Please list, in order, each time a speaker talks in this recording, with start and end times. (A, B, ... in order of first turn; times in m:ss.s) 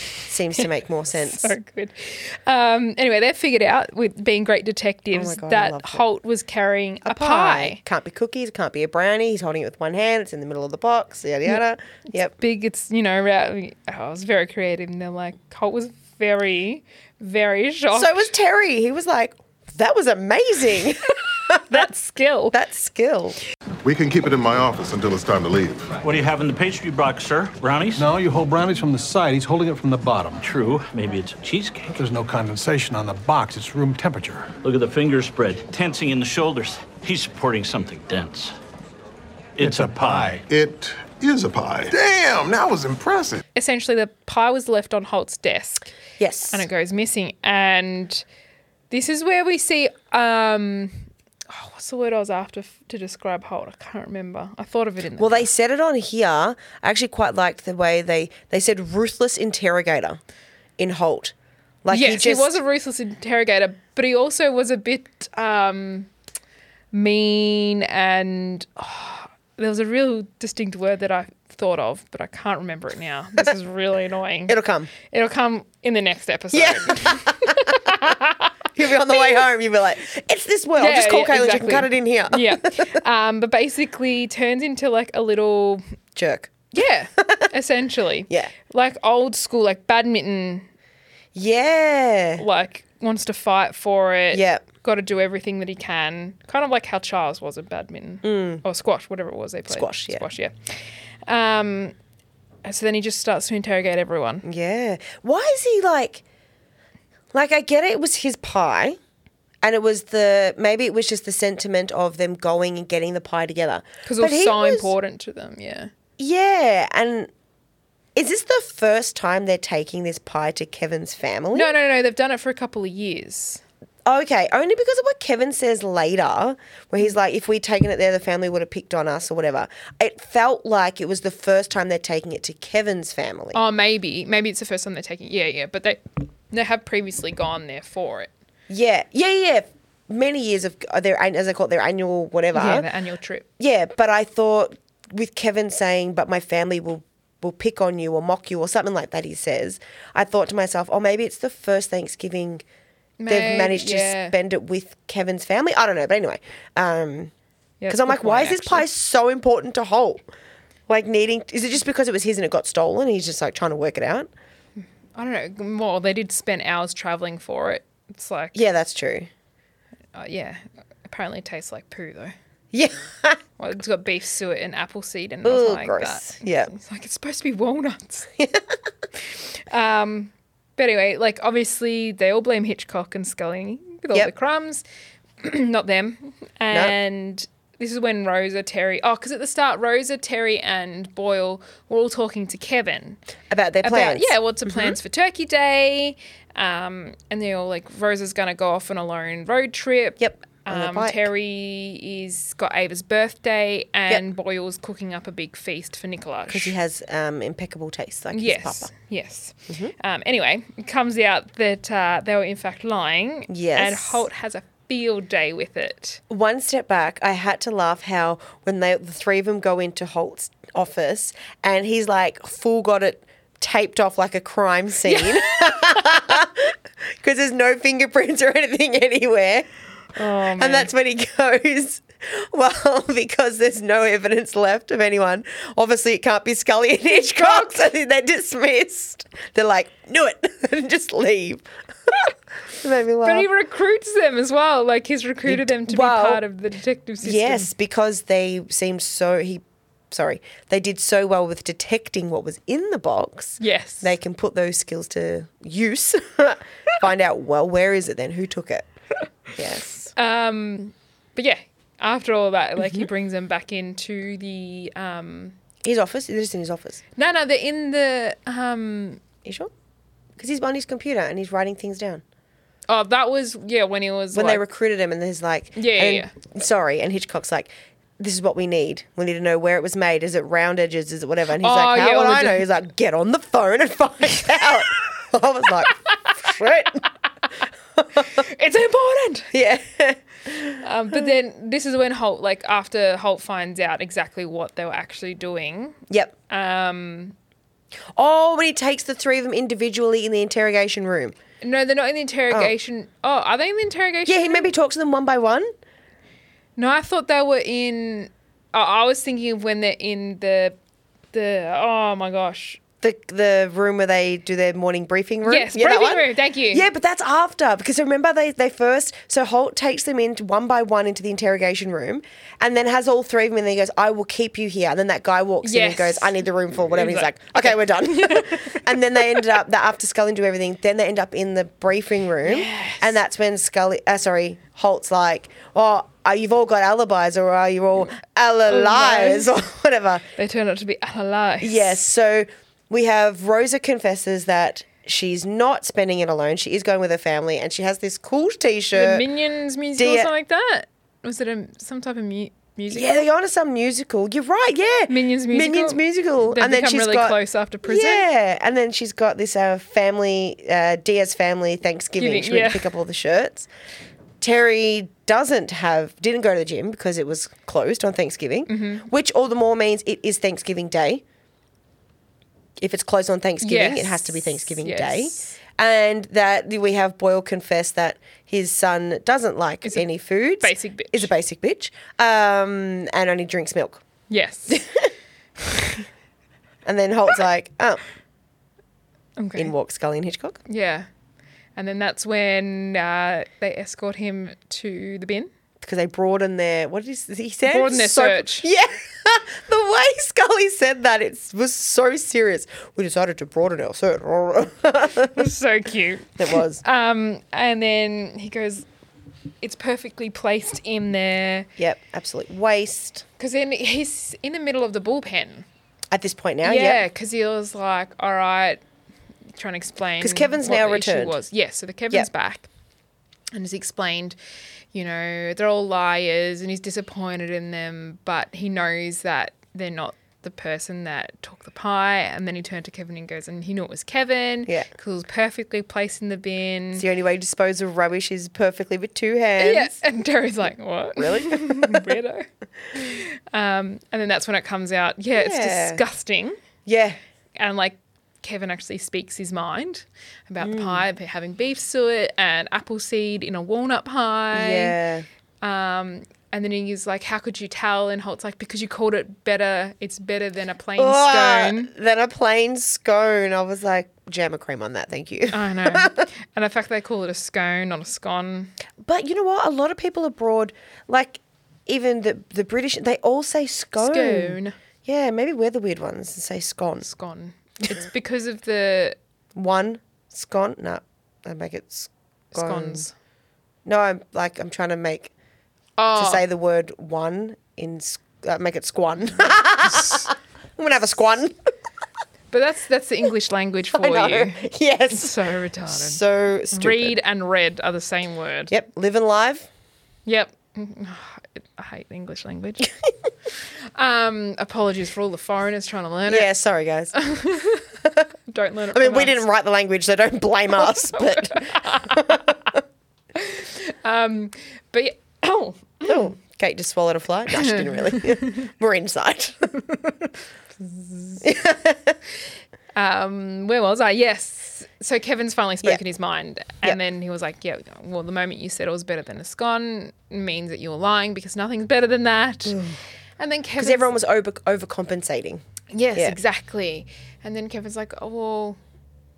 0:00.3-0:01.6 A
0:00.6-0:07.8 B
0:05.1-0:06.1 A
0:07.0-0:12.3 A
0:12.3-0:18.3 B
0:17.9-0:21.9 A
0:21.7-0:22.6 B
0:22.5-0:23.4 A
0:23.8-0:25.9 C
0:26.0-0:28.0 D
0:28.0-0:30.4 E
0:30.4-0:31.9 D
0:31.9-0:34.5 E
0:34.6-0:38.6 D
0:39.6-0:40.4 D
0:39.6-0:43.4 C
0:43.6-0:45.9 B
0:46.2-0:46.7 A
0:46.5-0:48.2 B
0:48.9-0:55.5 B
0:55.2-1:00.2 A
1:00.8-1:02.6 A
1:01.9-1:06.1 B
1:06.9-1:18.5 B
1:14.5-1:14.9 A
1:16.5-1:17.9 A
1:18.8-1:23.0 A
1:20.8-1:25.8 B
1:26.2-1:26.5 A
1:26.7-1:30.7 B
1:27.2-1:27.5 A
1:31.4-1:32.4 A
1:32.4-1:41.9 B
1:34.3-1:34.7 A
1:38.2-1:38.6 A
1:39.7-1:40.2 A
1:42.6-1:44.4 B
1:44.4-1:46.2 A
1:47.3-1:49.0 A
1:49.6-1:54.9 A
1:54.1-1:55.9 B
1:56.2-1:57.3 A
1:58.2-2:01.7 A
2:01.5-2:03.6 B
2:04.0-2:13.6 A
2:13.5-2:18.3 B
2:18.7-2:22.9 A
2:22.5-2:23.5 B
2:23.6-2:32.6 A
2:33.2-2:34.4 B
2:33.3-2:37.3 A
2:37.8-2:38.9 B
2:37.9-2:40.2 A
2:40.9-2:44.3 A
2:45.2-2:48.6 B
2:48.5-2:49.3 A
2:50.2-2:52.3 B
2:52.7-2:53.4 A
2:53.6-2:58.3 B
2:55.4-2:56.7 A
2:59.3-3:04.8 B
3:05.4-3:13.2 B
3:06.7-3:07.0 A
3:13.5-3:15.0 A
3:13.8-3:26.8 B
3:20.2-3:21.3 A
3:26.5-3:28.9 A
3:28.3-3:36.2 B
3:29.7-3:29.9 A
3:33.5-3:34.3 A
3:36.3-3:49.7 A
3:45.1-3:46.2 B
3:50.2-3:50.9 B
3:50.6-4:03.5 A
3:57.3-3:57.8 B
4:03.2-4:07.7 B
4:05.4-4:06.4 A
4:07.2-4:18.9 A
4:13.6-4:14.1 B
4:19.6-4:20.1 A
4:20.1-4:25.6 B
4:25.8-4:27.0 A
4:27.2-4:29.2 B
4:29.4-4:29.7 A
4:30.4-4:32.2 A
4:32.9-4:34.6 B
4:34.3-4:47.0 A
4:35.8-4:36.3 B
4:41.6-4:42.6 B
4:48.0-4:48.3 A
4:48.2-4:49.5 B
4:49.5-4:50.8 A
4:50.8-4:56.0 B
4:56.1-4:56.4 A
4:56.5-4:57.4 B
4:58.2-5:01.4 A
5:01.6-5:04.7 B
5:04.3-5:05.7 A
5:06.8-5:10.8 B
5:11.3-5:12.8 B
5:13.0-5:40.2 A
5:15.4-5:16.8 B
5:25.6-5:26.3 B
5:26.9-5:29.4 B
5:32.4-5:33.1 B
5:38.7-5:39.5 B
5:40.4-5:42.0 B
5:41.6-5:49.2 A
5:48.9-5:53.3 B
5:50.0-5:50.3 A
5:52.9-6:03.7 A
5:55.1-5:58.3 B
6:02.2-6:02.9 B
6:04.4-6:11.2 A
6:08.7-6:09.1 B
6:12.8-6:24.0 A
6:13.6-6:15.6 B
6:20.6-6:21.3 B
6:24.3-6:24.8 B
6:24.7-6:25.1 A
6:26.8-6:28.0 A
6:29.4-6:29.7 B
6:29.6-6:30.6 A
6:30.7-6:31.1 B
6:31.8-6:35.5 B
6:35.8-6:45.5 A
6:37.7-6:38.7 B
6:45.4-6:48.9 B
6:46.4-6:46.8 A
6:49.6-6:51.7 B
6:51.8-6:53.2 A
6:53.4-6:55.7 B
6:56.1-6:57.1 A
6:56.6-6:58.8 B
6:59.6-7:02.7 B
7:00.2-7:01.4 A
7:03.5-7:04.4 B
7:04.9-7:17.0 B
7:17.0-7:20.0 A
7:19.6-7:26.6 B
7:21.2-7:22.1 A
7:25.4-7:26.0 A
7:26.8-7:27.2 A
7:27.6-7:35.0 B
7:30.6-7:31.0 A
7:34.5-7:35.3 A
7:35.6-7:41.9 B
7:41.0-7:46.3 A
7:45.5-7:48.7 B
7:49.0-7:57.1 A
7:54.0-7:54.8 B
7:57.0-7:59.2 B
7:59.6-8:03.1 A
8:02.5-8:03.1 B
8:03.8-8:05.3 A
8:06.0-8:06.4 B
8:06.2-8:11.6 A
8:12.5-8:16.2 B
8:13.9-8:17.2 A
8:16.7-8:18.7 B
8:18.7-8:19.7 A
8:20.3-8:22.9 B
8:24.0-8:26.5 B
8:26.3-8:27.2 A
8:27.2-8:27.8 B
8:28.5-8:29.4 B
8:28.9-8:32.6 A
8:30.8-8:32.4 B
8:33.4-8:36.3 B
8:36.0-8:39.7 A
8:37.5-8:38.6 B
8:40.8-8:41.4 B
8:41.4-8:42.2 A
8:43.0-8:52.8 B
8:52.7-8:53.0 A
8:53.4-8:54.1 B
8:53.8-8:55.6 A
8:55.9-8:58.8 B